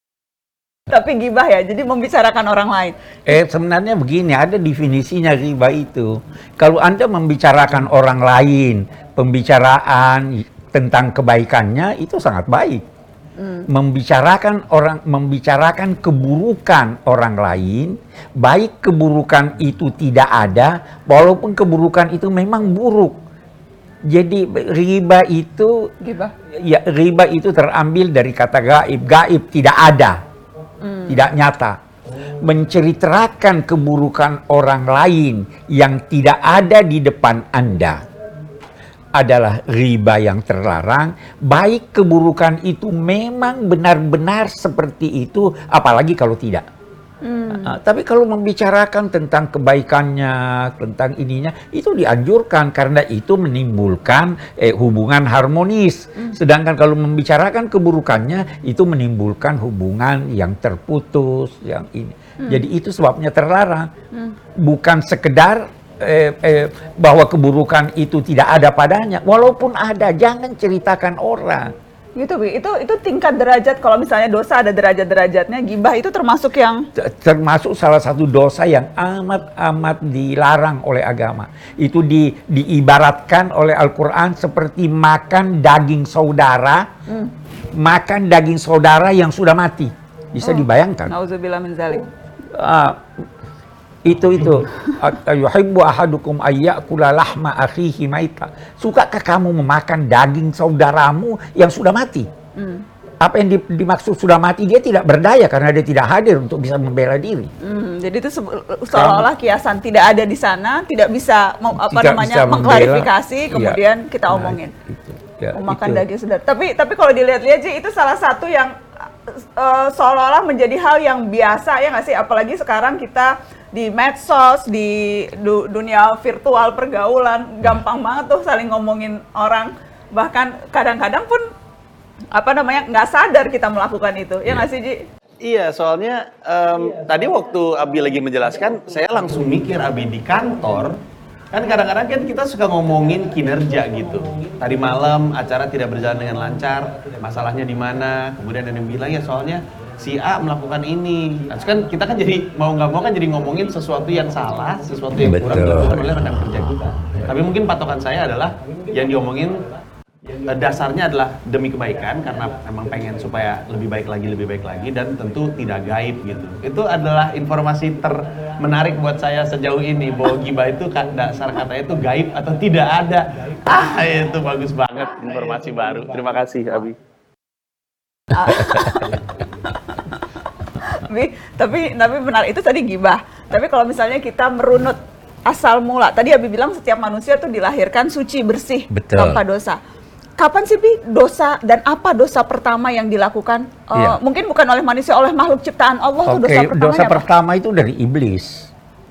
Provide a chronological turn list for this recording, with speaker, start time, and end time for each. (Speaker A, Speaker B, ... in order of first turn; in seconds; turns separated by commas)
Speaker A: 0.9-3.0, Speaker B: 3.3-12.8, Speaker A: 13.4-13.7, Speaker B: 13.7-23.2, Speaker B: 24.1-25.9, Speaker A: 26.0-26.3, Speaker B: 26.5-30.2, Speaker A: 30.8-31.3, Speaker B: 31.1-31.8, Speaker B: 32.4-38.0, Speaker B: 39.2-46.7, Speaker A: 47.2-47.8, Speaker B: 47.5-63.9, Speaker B: 64.6-71.7, Speaker A: 72.2-76.8, Speaker B: 77.0-86.8, Speaker A: 87.1-87.3, Speaker B: 87.7-91.1, Speaker A: 90.4-92.1, Speaker B: 92.5-93.0, Speaker B: 94.0-102.3, Speaker A: 102.6-102.8, Speaker B: 103.2-107.5, Speaker A: 107.6-114.7, Speaker B: 108.9-109.3, Speaker B: 111.8-116.0, Speaker A: 115.5-118.7, Speaker A: 119.3-131.4, Speaker A: 132.3-135.0, Speaker C: 135.4-141.0, Speaker C: 141.5-159.7, Speaker B: 155.2-156.2, Speaker C: 160.4-177.0, Speaker A: 178.3-180.1, Speaker B: 178.5-179.1, Speaker A: 180.8-189.8, Speaker B: 188.9-189.4, Speaker A: 190.4-197.2, Speaker B: 196.2-198.7